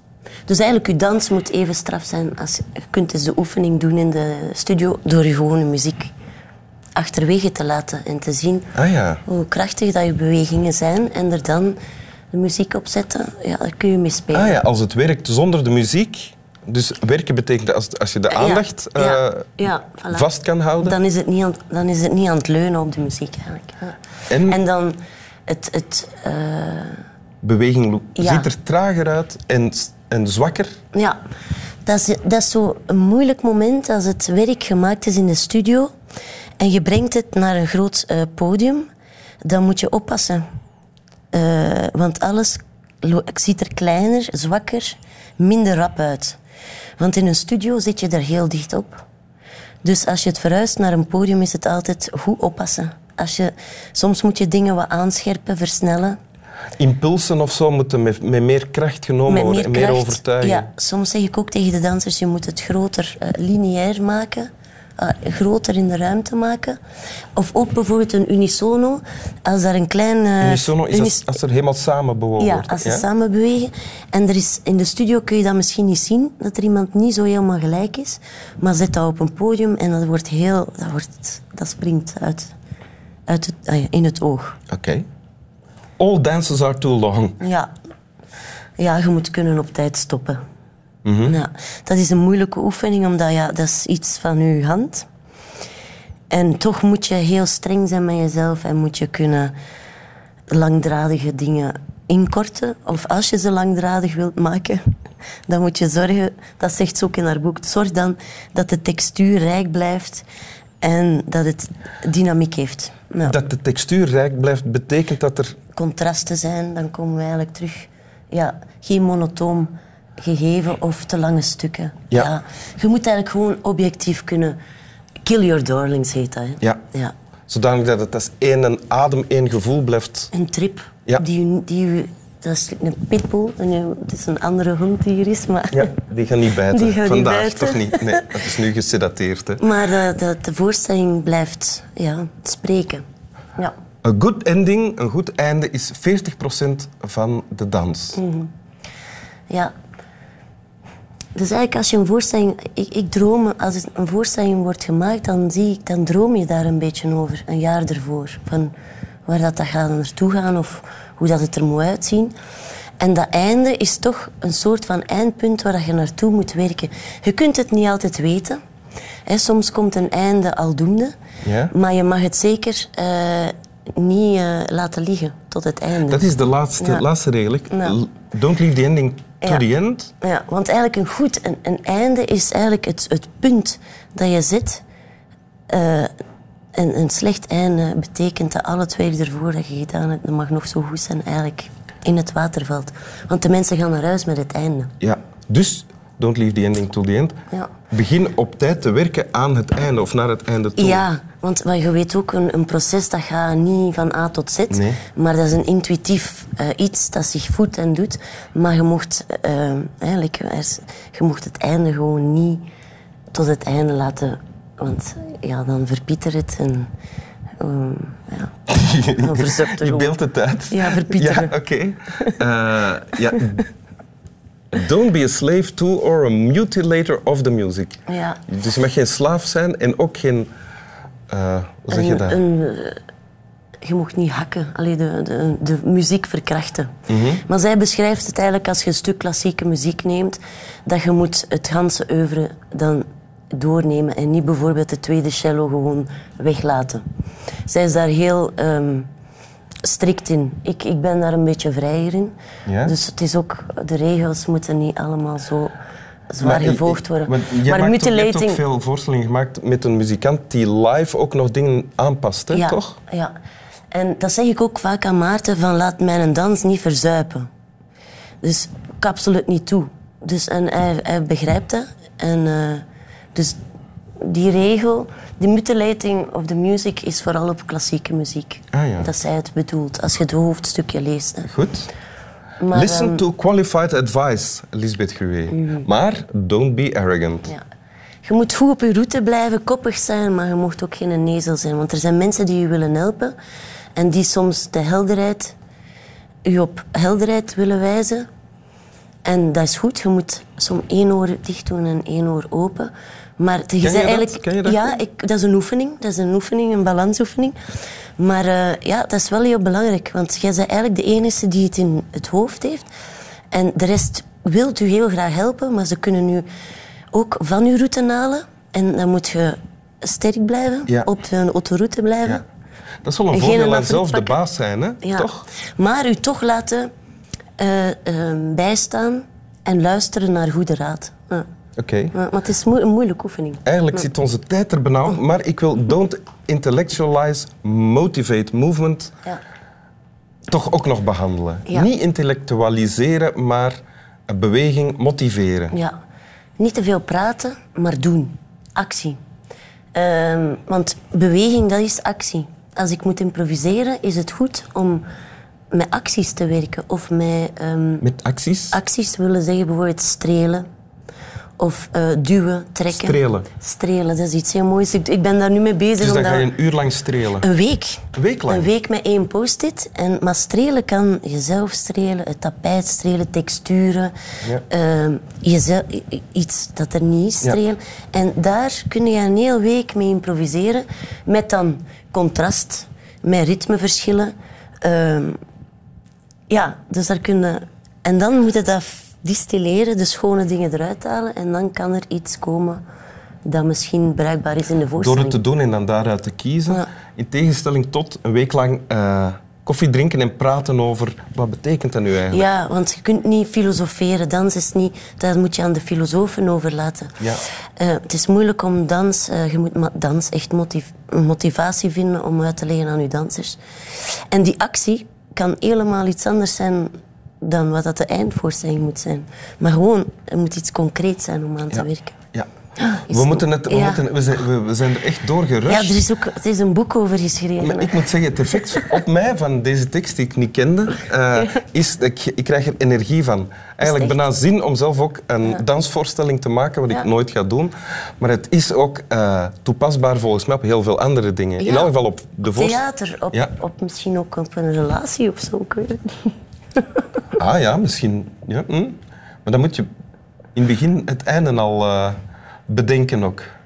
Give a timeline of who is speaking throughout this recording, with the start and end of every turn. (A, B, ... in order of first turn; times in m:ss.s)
0:00.5-0:06.1 A
0:07.0-0:08.7 A
0:08.8-0:09.2 B
0:09.3-0:11.8 A
0:12.3-0:14.6 A
0:14.3-0:19.6 B
0:18.3-0:20.3 A
0:20.1-0:21.0 B
0:20.8-0:27.0 A
0:24.3-0:24.6 B
0:27.4-0:30.8 B
0:28.2-0:28.5 A
0:31.8-0:35.9 A
0:36.6-0:38.9 A
0:39.4-0:40.4 A
0:41.3-0:46.4 A
0:47.0-0:49.0 A
0:49.8-0:56.2 A
0:56.8-1:00.7 B
0:59.3-1:06.8 A
1:07.4-1:11.4 A
1:10.4-1:13.0 B
1:12.4-1:22.5 A
1:23.3-1:24.6 A
1:24.7-1:25.0 B
1:26.0-1:27.4 B
1:27.4-1:27.7 A
1:28.8-1:30.4 A
1:31.0-1:31.4 B
1:31.2-1:35.1 A
1:36.3-1:39.5 A
1:40.5-1:44.8 A
1:45.5-1:50.3 A
1:50.8-1:53.4 A
1:53.2-1:55.6 B
1:55.7-2:04.6 A
2:05.2-2:07.1 A
2:07.5-2:10.3 B
2:10.3-2:15.9 A
2:15.7-2:19.6 B
2:16.7-2:18.3 A
2:19.6-2:23.0 A
2:24.0-2:28.2 B
2:28.2-2:28.5 A
2:31.4-2:38.7 A
2:39.3-2:42.3 A
2:43.0-2:48.6 A
2:49.3-2:51.1 A
2:51.4-2:51.7 B
2:51.7-2:56.2 A
2:56.1-3:00.1 B
2:56.8-2:57.0 A
2:57.7-2:58.0 A
3:00.2-3:04.8 A
3:05.7-3:06.1 A
3:06.7-3:14.9 A
3:15.0-3:17.4 B
3:17.9-3:21.0 B
3:20.8-3:32.6 A
3:24.7-3:25.0 B
3:33.3-3:36.9 A
3:37.6-3:38.6 A
3:38.7-3:43.6 B
3:39.2-3:40.2 A
3:40.7-3:41.5 A
3:43.4-3:43.6 A
3:44.7-3:50.5 B
3:48.1-3:48.4 A
3:51.3-3:52.4 B
3:51.9-3:53.0 A
3:53.8-3:56.9 A
3:57.1-3:57.4 B
3:57.4-4:07.0 A
4:07.7-4:09.1 A
4:09.8-4:15.7 A
4:12.7-4:12.9 B
4:16.3-4:18.6 A
4:16.4-4:23.0 B
4:22.5-4:23.3 A
4:23.9-4:27.5 A
4:28.4-4:32.8 A
4:34.2-4:41.5 A
4:38.7-4:39.1 B
4:41.5-4:41.9 B
4:42.6-4:43.2 A
4:42.7-4:47.5 B
4:45.5-4:45.9 A
4:48.2-4:53.4 A
4:54.0-4:55.6 A
4:56.4-4:58.3 A
4:59.2-5:07.6 A
5:03.8-5:04.8 B
5:08.2-5:12.9 A
5:13.5-5:16.4 A
5:17.1-5:22.4 A
5:23.0-5:25.5 B
5:23.3-5:24.4 A
5:25.0-5:26.9 A
5:27.6-5:31.5 A
5:31.8-5:32.1 B
5:32.1-5:34.0 A
5:33.7-5:39.1 B
5:40.5-5:45.8 B
5:46.6-5:49.2 A
5:49.9-5:55.0 A
5:55.7-5:58.0 A
5:58.0-5:58.8 B
5:58.7-6:00.6 A
6:01.6-6:06.5 A
6:02.9-6:03.5 B
6:06.0-6:07.5 B
6:07.4-6:14.1 A
6:08.1-6:08.7 B
6:14.7-6:25.4 A
6:26.5-6:32.8 A
6:33.4-6:35.4 A
6:35.0-6:42.5 B
6:42.3-6:47.2 A
6:47.8-7:02.2 A
7:01.7-7:02.5 B
7:02.8-7:04.0 A
7:03.1-7:06.0 B
7:05.7-7:08.1 A
7:07.6-7:22.8 B
7:13.8-7:14.3 A
7:21.6-7:21.9 A
7:22.5-7:26.8 A
7:27.4-7:29.9 B
7:30.6-7:33.5 B